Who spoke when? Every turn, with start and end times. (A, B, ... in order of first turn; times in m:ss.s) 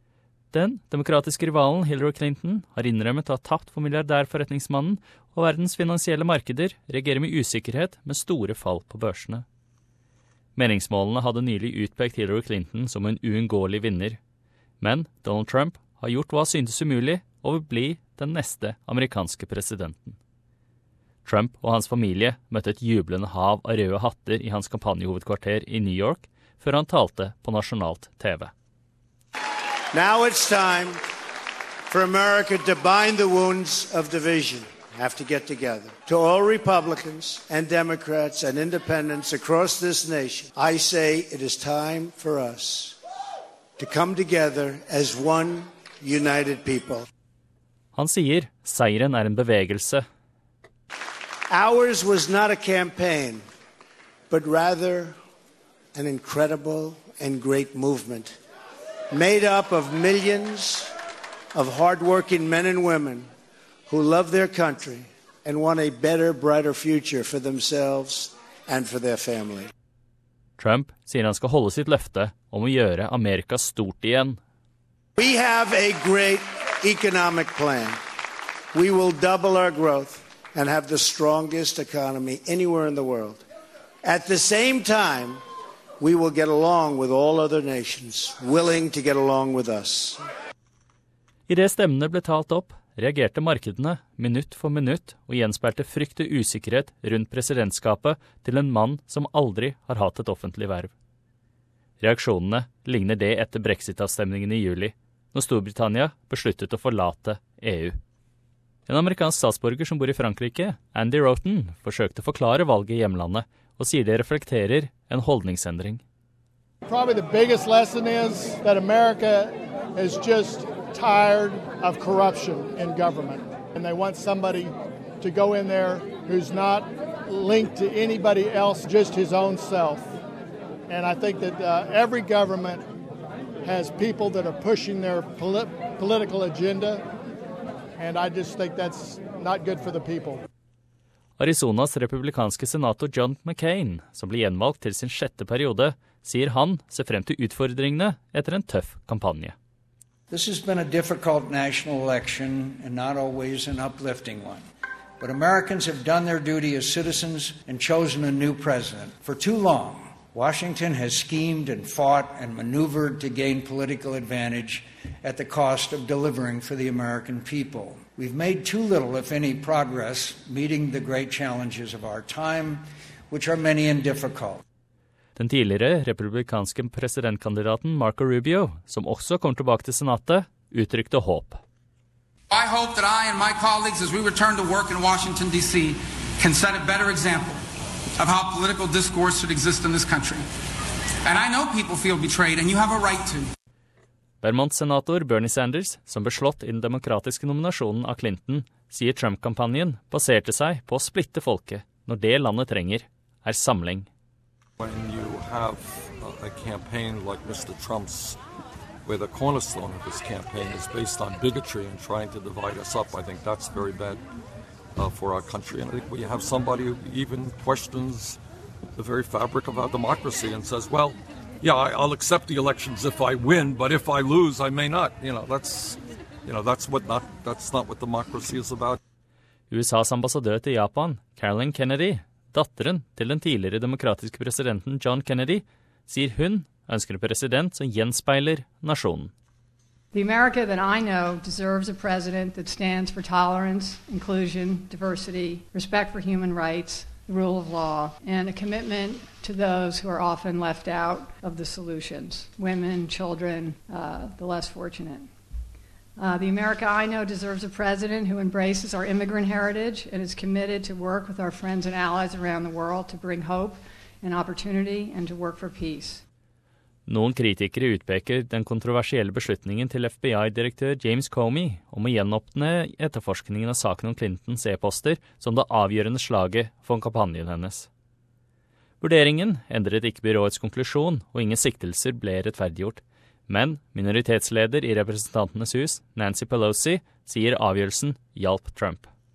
0:00.5-0:09.4 A
0:10.6-0:14.2 A
0:14.8-0:20.2 A
0:21.2-0:28.5 A
0:29.9-0:31.0 B
0:31.9-0:43.0 B
0:43.8-0:47.0 B
0:48.0-0:50.0 A
0:51.5-0:53.4 B
0:54.3-0:55.2 B
0:55.9-0:58.3 B
0:59.1-1:00.9 B
1:01.5-1:03.3 B
1:03.9-1:09.7 B
1:10.6-1:14.4 A
1:15.2-1:18.0 B
1:18.7-1:23.4 B
1:24.0-1:25.4 B
1:26.0-1:30.2 B
1:31.5-1:40.9 A
1:42.0-1:48.0 A
1:48.9-1:56.0 A
1:56.8-2:10.1 C
2:10.9-2:12.9 C
2:13.6-2:17.0 C
2:18.0-2:20.4 C
2:21.4-2:29.6 A
2:30.3-2:34.6 D
2:35.2-2:54.6 D
2:55.4-3:01.6 A
3:02.9-3:05.8 E
3:06.5-3:07.5 E
3:08.2-3:10.3 E
3:11.3-3:13.4 E
3:14.4-3:24.1 A
3:24.8-3:28.4 F
3:29.0-3:34.2 F
3:35.0-3:38.4 F
3:39.0-3:49.0 F
3:49.7-3:59.3 A
4:00.1-4:15.3 G
4:16.2-4:26.2 G
4:27.1-4:37.9 A
4:39.0-4:49.1 A